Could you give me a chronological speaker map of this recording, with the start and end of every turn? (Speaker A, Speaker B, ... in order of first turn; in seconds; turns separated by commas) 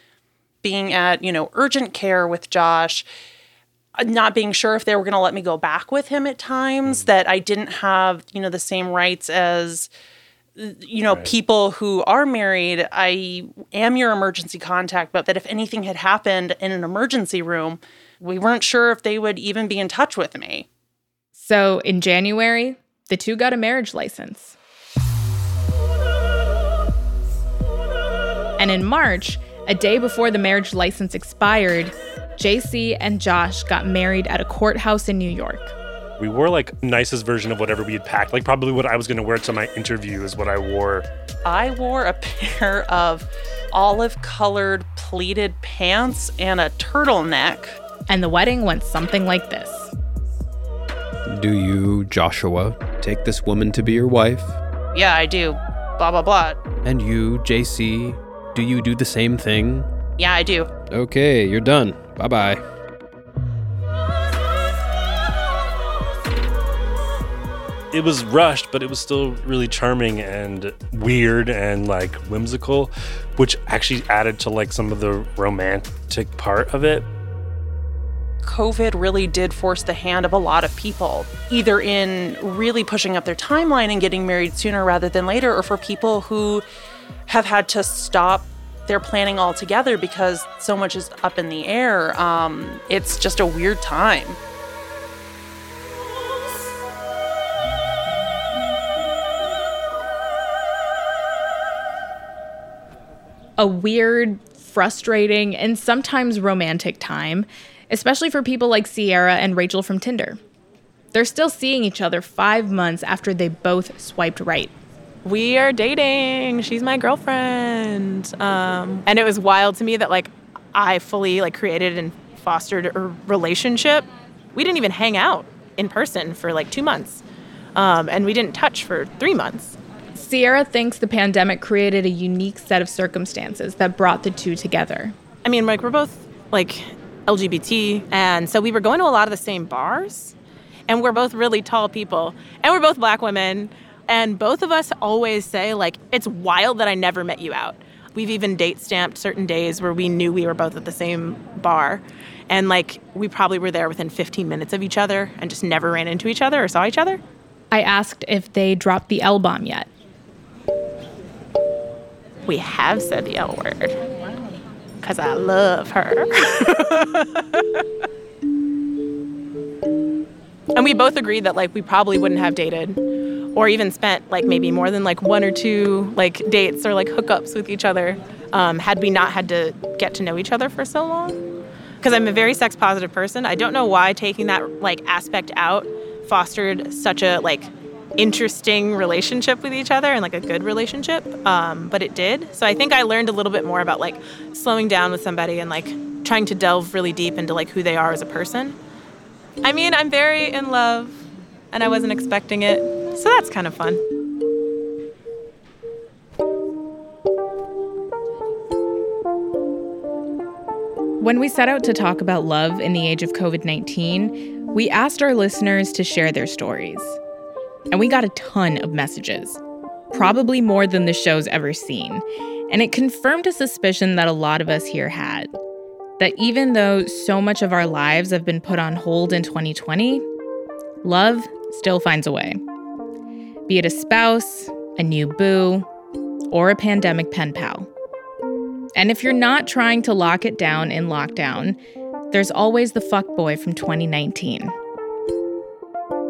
Speaker A: 0.6-3.1, Speaker A: 4.0-9.9, Speaker A: 10.6-20.7, Speaker B: 21.3-24.6, Speaker B: 28.6-35.8, Speaker C: 36.2-41.1, Speaker A: 41.5-47.8, Speaker B: 48.1-49.9, Speaker D: 51.3-54.6, Speaker A: 54.9-56.6, Speaker D: 56.8-59.9, Speaker A: 60.2-60.7, Speaker D: 60.9-62.6, Speaker C: 67.9-77.1, Speaker A: 78.4-86.7, Speaker A: 87.3-94.4, Speaker B: 103.6-110.4, Speaker B: 111.1-114.7, Speaker E: 115.2-127.2, Speaker E: 127.8-129.8, Speaker B: 130.2-135.2, Speaker E: 135.4-140.3, Speaker E: 140.9-157.2, Speaker B: 157.7-159.9, Speaker E: 162.5-164.3, Speaker E: 165.0-167.7, Speaker E: 170.8-173.0, Speaker E: 173.6-181.4, Speaker E: 182.0-198.8, Speaker E: 199.6-204.0, Speaker B: 211.2-217.2, Speaker B: 217.9-219.6, Speaker B: 220.1-225.5, Speaker B: 226.2-230.2, Speaker B: 231.0-232.6, Speaker B: 233.7-235.9, Speaker B: 236.5-237.9, Speaker B: 238.9-241.8, Speaker B: 242.3-244.8